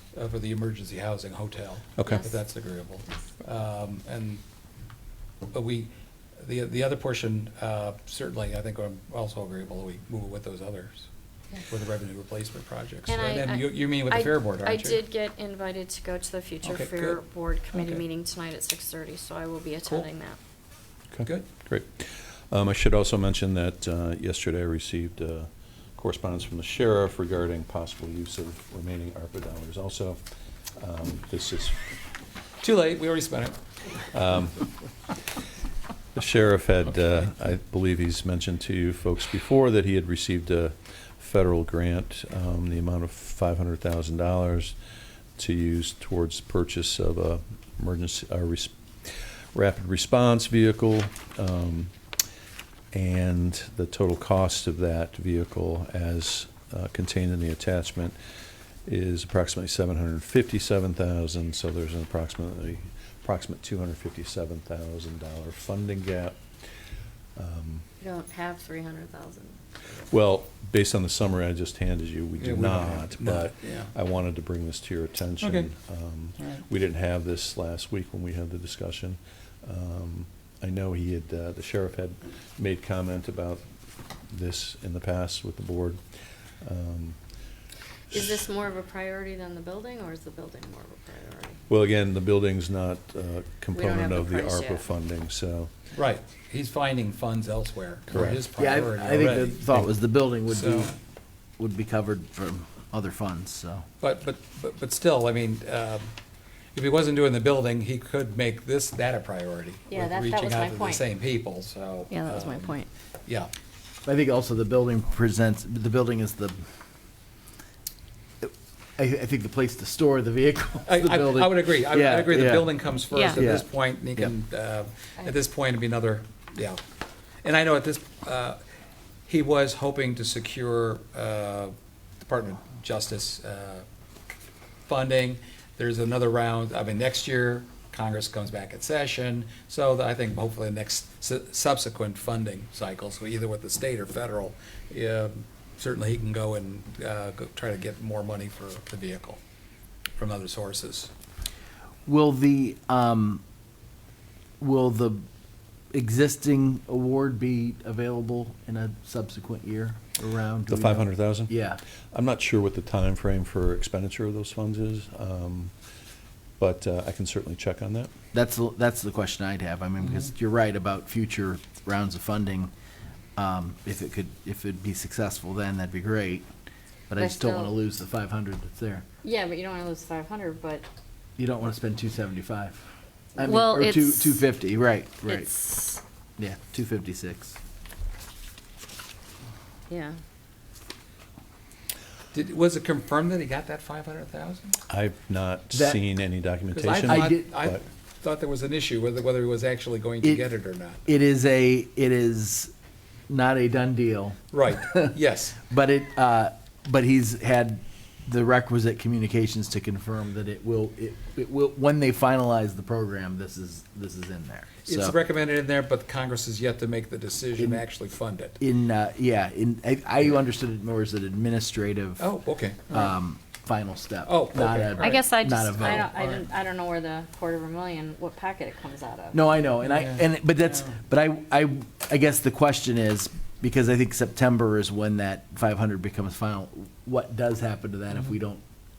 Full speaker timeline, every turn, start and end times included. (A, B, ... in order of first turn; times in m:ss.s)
0:00.1-0:04.4 A
0:02.0-0:02.3 B
0:02.1-0:02.4 C
0:05.5-0:11.1 A
0:11.7-0:15.0 A
0:13.1-0:20.4 C
0:16.6-0:18.0 A
0:21.1-0:30.2 B
0:30.8-0:31.9 B
0:32.6-0:33.6 A
0:34.1-0:34.7 B
0:36.2-0:44.8 B
0:45.4-0:51.9 B
0:52.9-0:58.2 B
0:58.9-1:06.8 B
1:07.4-1:07.8 B
1:08.0-1:09.6 C
1:10.1-1:23.6 B
1:12.4-1:13.9 A
1:15.4-1:15.7 A
1:24.3-1:26.0 B
1:26.6-1:27.2 B
1:28.1-1:31.6 C
1:31.7-1:35.7 B
1:33.7-1:34.9 C
1:36.0-1:39.6 A
1:38.1-1:38.4 B
1:38.6-1:41.0 D
1:40.5-1:40.9 A
1:41.6-1:43.8 D
1:44.0-1:46.1 A
1:46.7-1:53.5 A
1:49.9-1:51.0 C
1:52.1-1:52.9 C
1:54.0-1:56.6 D
1:58.4-2:02.7 D
2:00.9-2:06.8 A
2:03.1-2:03.5 C
2:03.3-2:04.3 D
2:07.4-2:08.6 A
2:09.3-2:13.8 A
2:14.9-2:29.4 A
2:30.2-2:31.1 A
2:32.1-2:33.4 D
2:34.6-2:35.2 D
2:35.9-2:41.8 D
2:40.7-2:41.6 B
2:42.1-2:45.7 B
2:46.6-2:48.1 B
2:48.3-2:52.7 D
2:53.4-2:56.5 D
2:57.1-2:59.0 D
2:57.2-2:57.7 C
2:59.2-3:00.8 C
3:01.4-3:02.8 D
3:03.4-3:05.5 D
3:03.4-3:04.4 C
3:05.3-3:06.0 C
3:06.4-3:07.6 D
3:09.9-3:10.2 C
3:12.3-3:14.8 A
3:14.9-3:17.8 B
3:15.7-3:16.0 D
3:16.7-3:21.0 A
3:17.0-3:17.5 D
3:21.1-3:22.7 D
3:23.3-3:35.2 D
3:24.5-3:25.6 A
3:34.9-3:38.6 A
3:37.6-3:37.9 D
3:38.6-3:42.3 D
3:42.2-3:43.1 A
3:42.9-3:46.1 D
3:44.3-3:46.5 A
3:45.0-3:49.4 C
3:49.3-3:58.6 D
3:49.8-3:51.0 A